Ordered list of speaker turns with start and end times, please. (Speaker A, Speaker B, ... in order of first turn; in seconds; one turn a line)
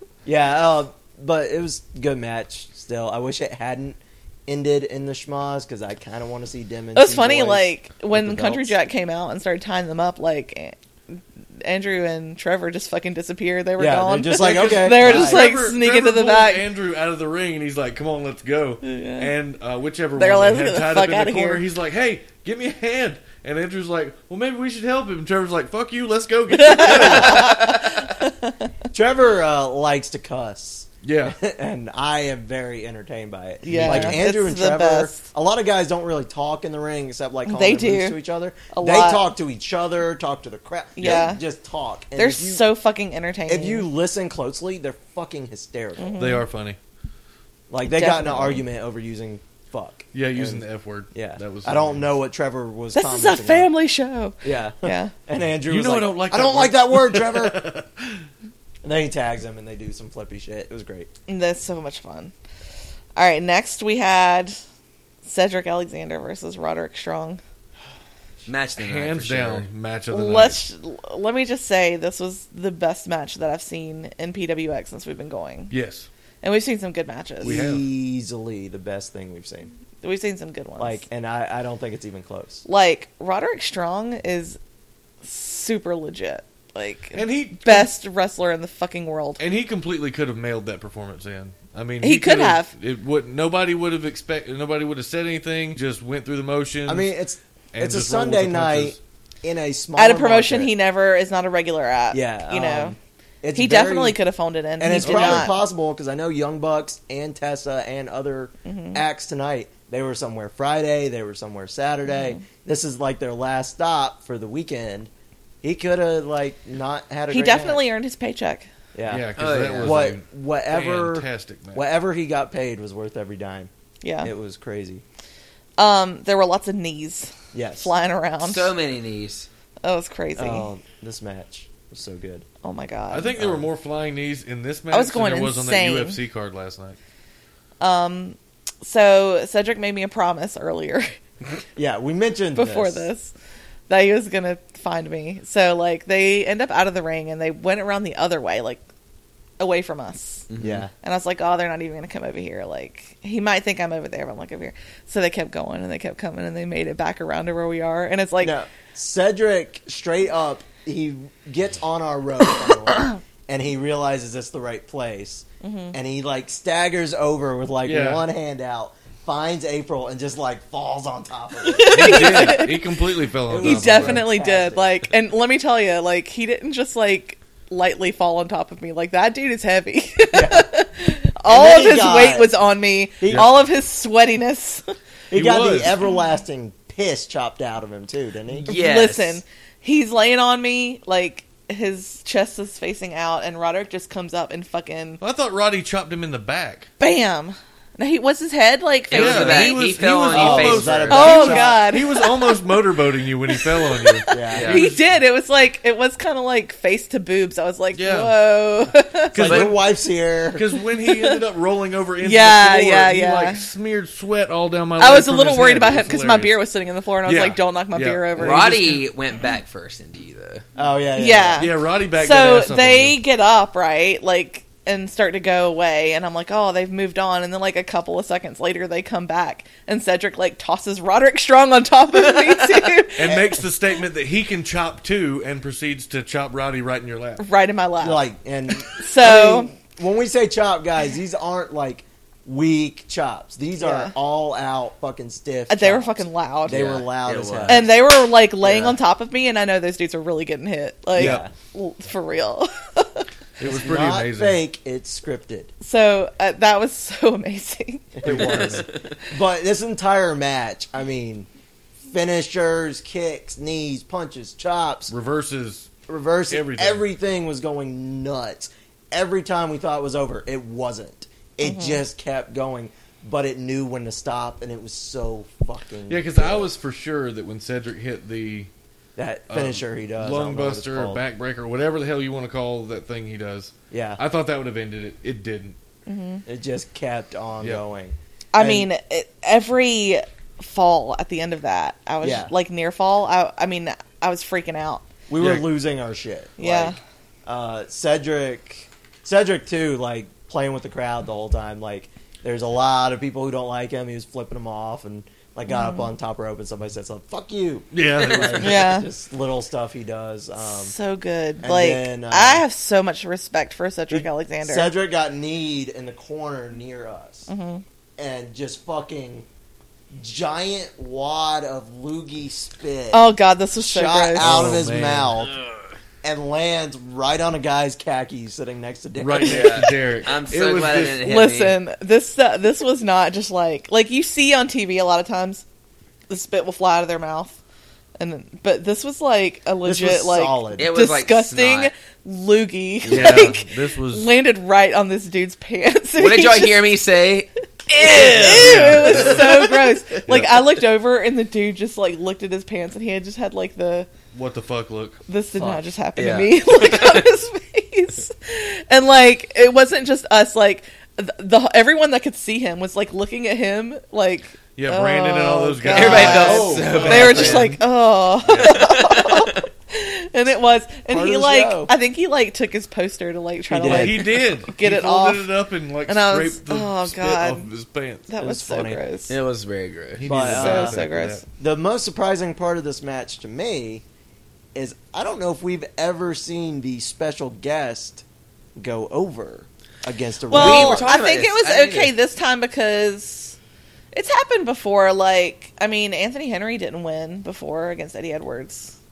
Speaker A: 0.2-8.8
Speaker B: 6.9-16.7
Speaker A: 13.8-15.5
Speaker C: 14.3-27.7
Speaker B: 18.8-19.3
Speaker B: 20.1-21.6
Speaker B: 26.5-28.7
Speaker A: 26.8-27.6
Speaker A: 28.9-42.6
Speaker C: 31.0-31.4
Speaker B: 33.6-35.2
Speaker C: 33.7-34.2
Speaker B: 37.5-38.2
Speaker B: 38.7-39.2
Speaker B: 41.0-41.4
Speaker B: 42.1-43.9
Speaker A: 43.5-46.2
Speaker B: 46.0-46.5
Speaker C: 46.1-46.8
Speaker A: 47.7-53.7
Speaker B: 47.8-48.6
Speaker C: 50.1-52.1
Speaker B: 52.9-55.1
Speaker A: 54.4-57.6
Speaker C: 55.6-58.2
Speaker A: 58.8-61.1
Speaker B: 61.3-62.3
Speaker B: 63.1-64.6
Speaker B: 65.2-67.4
Speaker D: 68.5-69.7
Speaker C: 68.8-70.6
Speaker B: 70.1-75.7
Speaker C: 75.7-76.1
Speaker B: 76.4-77.6
Speaker A: 77.4-79.7
Speaker C: 77.4-77.8
Speaker B: 80.0-81.0
Speaker A: 80.8-82.6
Speaker B: 82.7-84.6
Speaker B: 85.2-89.4
Speaker C: 87.1-87.9
Speaker C: 89.4-97.1
Speaker B: 92.0-92.7
Speaker A: 96.8-100.7
Speaker C: 97.7-99.0
Speaker B: 100.0-103.0
Speaker A: 102.1-104.2
Speaker B: 103.5-105.5
Speaker A: 104.8-115.1
Speaker C: 105.0-105.5
Speaker B: 108.6-109.0
Speaker B: 112.1-112.4
Speaker A: 115.6-117.8
Speaker B: 117.3-118.7
Speaker A: 118.9-123.7
Speaker C: 119.0-121.8
Speaker D: 119.3-120.2
Speaker B: 124.0-124.3
Speaker A: 124.2-125.0
Speaker B: 125.8-128.7
Speaker A: 127.5-127.9
Speaker D: 128.4-129.5
Speaker B: 129.8-130.7
Speaker A: 130.3-132.4
Speaker B: 132.6-133.4
Speaker C: 133.1-137.0
Speaker A: 133.4-133.6
Speaker B: 134.9-136.2
Speaker B: 137.8-141.2
Speaker A: 141.8-143.1
Speaker B: 142.5-143.3
Speaker B: 143.9-148.8
Speaker B: 149.6-150.5
Speaker D: 150.5-150.8
Speaker A: 150.6-150.9
Speaker B: 151.0-158.6
Speaker A: 158.4-172.7
Speaker B: 165.6-165.9
Speaker C: 167.8-168.2
Speaker B: 171.6-173.0
Speaker C: 171.9-174.3
Speaker A: 173.5-175.0
Speaker B: 173.5-184.8
Speaker A: 180.3-180.7
Speaker A: 181.4-182.5
Speaker A: 183.2-183.5
Speaker A: 185.3-188.7
Speaker C: 185.3-186.0
Speaker D: 188.6-189.4
Speaker B: 188.7-195.2
Speaker C: 195.2-196.9
Speaker B: 197.0-199.8
Speaker D: 199.1-201.2
Speaker C: 199.1-205.0
Speaker A: 200.3-201.8
Speaker B: 201.1-202.6
Speaker B: 203.5-209.7
Speaker A: 204.3-204.8
Speaker D: 204.5-204.8
Speaker C: 207.9-208.3
Speaker A: 209.3-210.6
Speaker C: 209.3-209.7
Speaker C: 210.5-216.5
Speaker B: 210.9-211.4
Speaker B: 212.2-213.6
Speaker B: 215.0-219.0
Speaker C: 217.2-219.0
Speaker D: 218.3-220.6
Speaker A: 220.8-221.7
Speaker B: 221.2-233.4
Speaker C: 221.6-223.2
Speaker D: 232.1-232.8
Speaker C: 233.2-237.4
Speaker B: 237.4-238.2
Speaker A: 238.0-247.9
Speaker B: 238.9-239.7
Speaker B: 243.8-244.1
Speaker B: 245.7-246.9
Speaker D: 246.7-247.9
Speaker B: 247.7-253.2
Speaker A: 248.6-248.9
Speaker A: 251.2-251.5
Speaker C: 251.2-251.4
Speaker C: 253.6-254.6
Speaker A: 253.6-255.7
Speaker B: 255.8-258.8
Speaker A: 258.2-261.5
Speaker C: 258.2-258.8
Speaker A: 262.1-265.1
Speaker C: 265.1-265.9
Speaker A: 266.1-276.7
Speaker C: 266.5-267.1
Speaker B: 271.6-272.0
Speaker C: 276.1-278.7
Speaker A: 279.1-281.2
Speaker C: 279.5-285.8
Speaker A: 283.9-284.2
Speaker B: 286.1-286.4
Speaker A: 286.4-288.9
Speaker B: 288.5-295.1
Speaker A: 292.2-292.5
Speaker A: 295.3-310.9
Speaker C: 295.4-295.7
Speaker B: 296.6-297.0
Speaker B: 305.7-306.1
Speaker C: 307.9-308.9
Speaker B: 308.6-309.1
Speaker B: 310.6-314.9
Speaker A: 311.6-312.6
Speaker A: 314.1-317.5
Speaker B: 317.5-317.8
Speaker A: 318.2-319.4
Speaker A: 320.1-323.2
Speaker B: 323.1-324.7
Speaker A: 323.8-325.6
Speaker C: 324.4-325.4
Speaker A: 326.2-329.9
Speaker C: 329.2-331.3
Speaker D: 329.4-331.8
Speaker B: 331.2-335.6
Speaker B: 336.3-337.6
Speaker B: 338.2-346.9
Speaker A: 339.8-340.9
Speaker D: 340.8-341.9
Speaker D: 343.0-343.5
Speaker C: 343.1-344.3
Speaker D: 346.2-350.2
Speaker B: 347.9-354.1
Speaker C: 348.1-349.6
Speaker C: 350.3-350.5
Speaker C: 354.3-355.2
Speaker B: 355.3-375.5
Speaker D: 356.2-357.3
Speaker C: 364.8-367.8
Speaker D: 365.9-367.8
Speaker A: 366.1-367.6
Speaker C: 368.4-368.8
Speaker D: 368.6-369.6
Speaker A: 371.1-371.9
Speaker A: 373.7-374.2
Speaker C: 373.8-378.3
Speaker B: 376.1-377.7
Speaker B: 378.3-379.3
Speaker A: 378.4-379.0
Speaker D: 379.3-380.3
Speaker C: 380.1-381.4
Speaker A: 380.2-381.0
Speaker B: 380.4-381.4
Speaker A: 381.6-384.0
Speaker A: 384.7-388.2
Speaker A: 388.8-391.1
Speaker D: 390.5-392.1
Speaker B: 390.5-393.6
Speaker B: 394.1-398.9